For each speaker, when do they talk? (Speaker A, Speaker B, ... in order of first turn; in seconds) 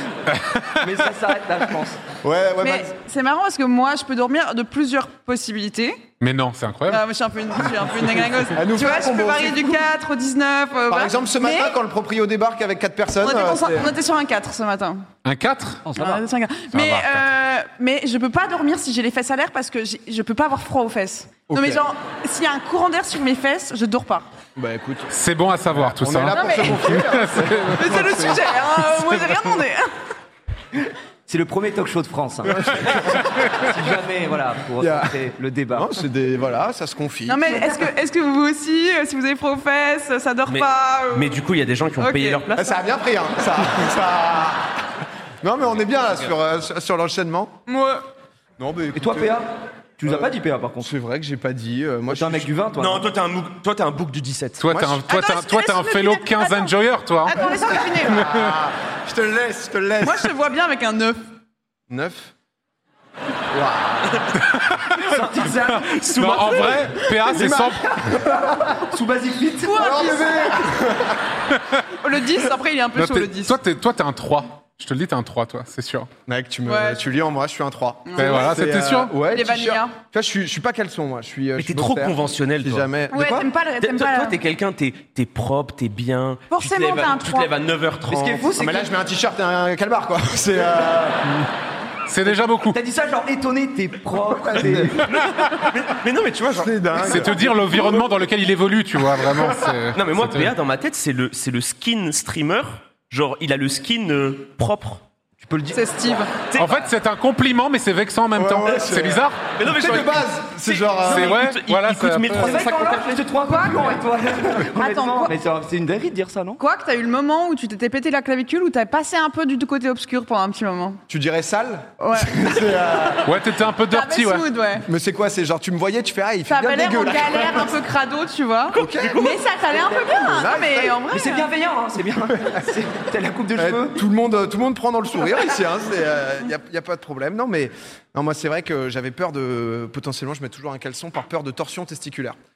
Speaker A: 0.3-0.8, 6.2-7.0, 15.2-15.9, 16.7-17.3, 25.1-29.4, 54.6-57.4, 58.2-58.5, 65.6-68.0, 73.0-76.1, 78.2-79.2, 92.1-92.8, 97.0-100.5, 106.6-109.4, 111.0-112.6, 123.2-124.5
Speaker B: 0.8-2.0, 15.9-16.2, 31.3-36.0, 48.9-50.9, 52.1-53.1, 64.9-66.4, 67.5-70.6, 88.1-88.9, 92.2-95.1, 105.4-106.2, 112.3-116.6, 129.8-130.1, 131.1-134.0
Speaker C: 2.2-2.9, 8.5-9.8, 10.9-13.9, 21.5-21.8, 24.6-25.1, 25.8-28.1, 32.5-33.2, 34.8-35.1, 35.7-37.4, 42.5-44.6, 45.4-47.5, 48.6-49.4, 50.8-52.5, 54.7-55.1, 57.4-60.3, 61.9-62.3, 63.5-64.2, 67.3-68.7, 69.8-71.2, 76.3-83.5, 88.6-91.3, 94.6-95.0, 96.5-97.8, 108.3-111.4, 121.1-123.2, 124.8-127.8, 128.8-129.2, 130.2-131.0, 133.6-142.4
Speaker D: 2.6-6.0, 6.9-11.8, 13.2-15.1, 15.9-24.3, 26.3-27.1, 27.7-29.9, 37.3-41.4, 42.0-42.5, 47.7-48.0, 55.1-58.2, 60.0-61.3, 66.6-67.3, 69.6-70.7, 72.0-73.6, 76.7-77.1, 78.1-78.7, 79.2-80.0, 83.1-84.4, 86.5-87.5, 105.7-106.5, 113.3-114.0, 114.6-115.4, 116.6-121.0, 122.0-123.1, 123.9-124.8, 126.5-131.5
Speaker E: 40.5-42.7, 52.7-54.6, 64.1-64.4, 65.9-66.9, 81.6-82.9, 83.8-88.5, 95.0-98.0, 99.9-105.0, 106.5-106.9, 109.6-113.1, 128.7-129.4